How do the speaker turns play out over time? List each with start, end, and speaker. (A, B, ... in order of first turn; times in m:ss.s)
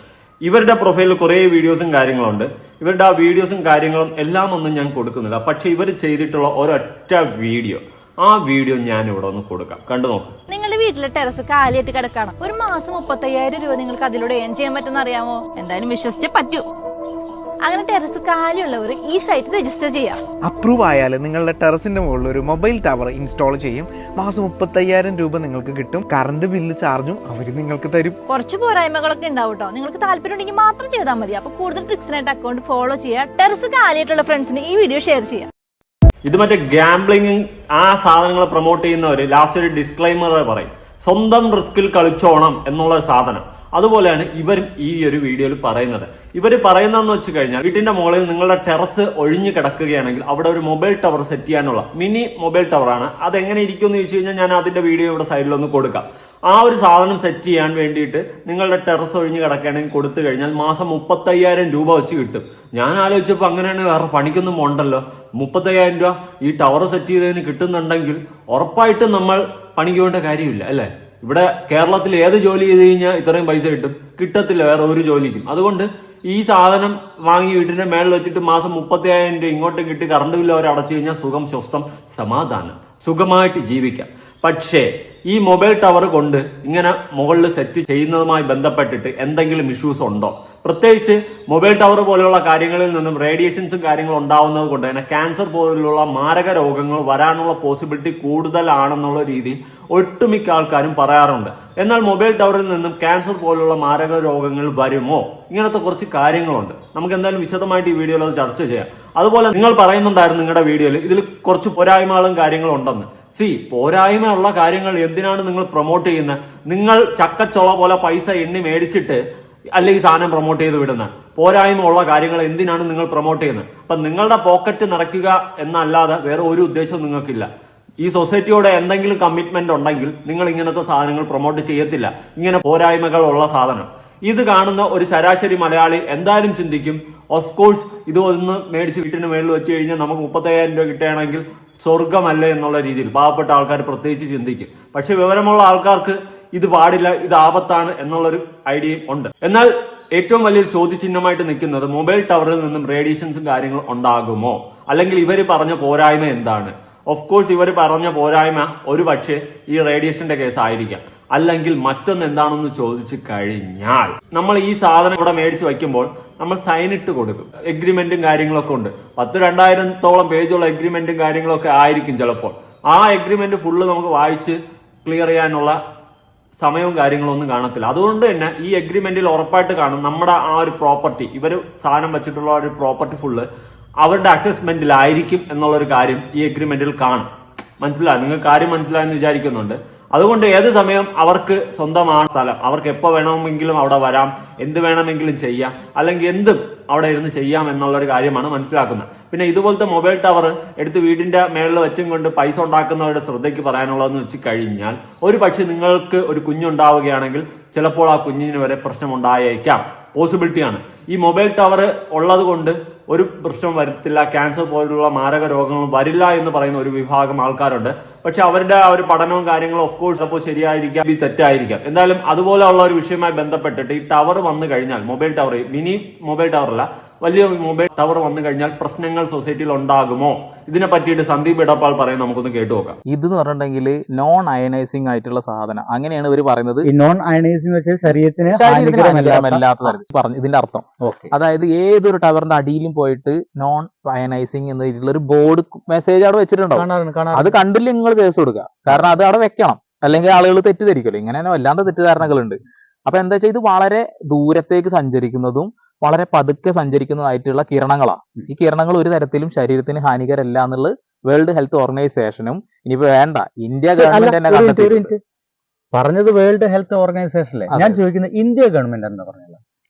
0:00.4-0:10.4 A
0:10.5-0:16.6 B
0:17.6-0:20.2 B
0:20.4-0:28.2 C
0:28.3-0:35.5 B
0:36.2-1:59.2 A
1:59.7-2:07.5 A
2:08.0-2:55.8 A
2:56.6-3:03.4 A
3:04.0-3:07.3 A
3:07.8-3:53.0 A
3:53.1-3:56.9 D
3:56.8-3:59.9 E
3:58.6-4:25.1 D
4:01.0-4:01.3 E
4:06.7-4:07.6 E
4:23.9-4:25.2 E
4:25.9-4:29.6 E
4:27.7-4:28.0 D